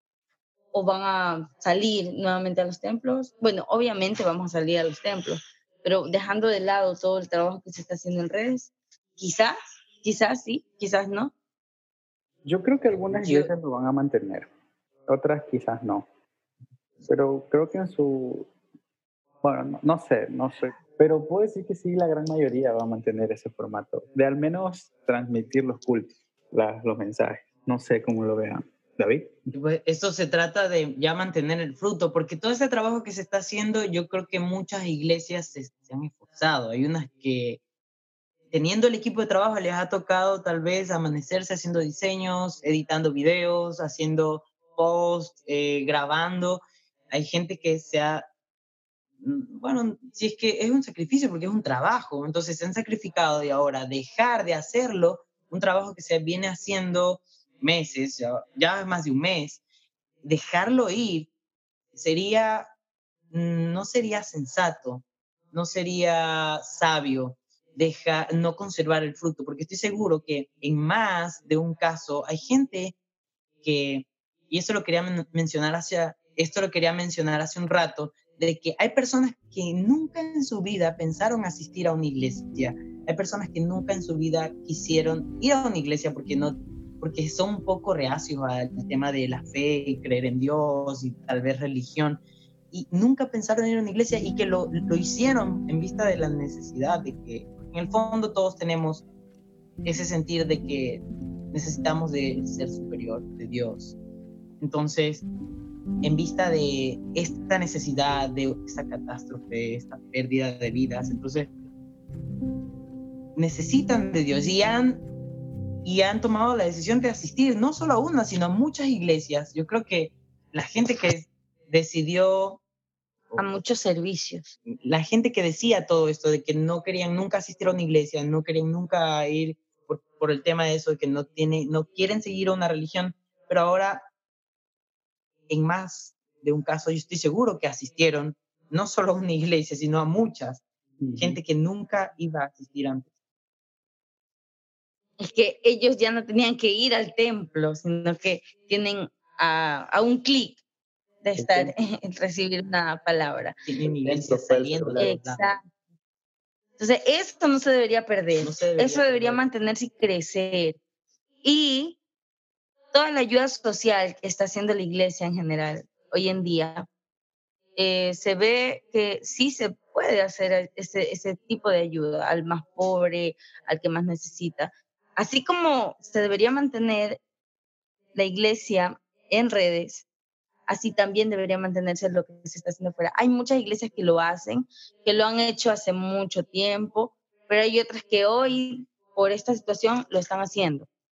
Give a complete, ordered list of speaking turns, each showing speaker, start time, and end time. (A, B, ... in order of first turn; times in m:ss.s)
0:00.7-0:11.3 A
0:12.4-0:14.5 B
0:13.1-0:13.5 C
0:15.1-0:16.1 B
0:17.0-0:18.5 B
0:19.4-0:29.4 B
0:29.5-0:37.6 C
0:38.5-0:48.2 C
0:49.2-0:59.6 C
1:00.2-1:01.3 C
1:01.9-1:02.7 C
1:03.3-1:13.0 C
1:13.6-1:32.2 C
1:32.7-1:39.0 C
1:39.8-1:44.0 C
1:44.6-1:45.2 C
1:46.0-1:51.5 C
1:53.4-1:55.0 C
1:55.8-2:02.6 C
2:03.4-2:04.5 A
2:04.7-2:14.0 C
2:15.5-2:20.6 C
2:21.0-2:21.4 B
2:21.2-2:23.1 C
2:25.2-2:30.6 A
2:31.2-2:33.6 A
2:31.4-2:31.7 B
2:33.7-2:35.5 C
2:33.8-2:35.1 B
2:35.0-2:35.6 A
2:36.8-2:40.8 A
2:38.4-2:39.4 C
2:41.4-2:42.0 A
2:42.9-2:46.9 A
2:47.8-2:57.2 A
2:58.1-3:00.0 A
3:00.7-3:10.9 A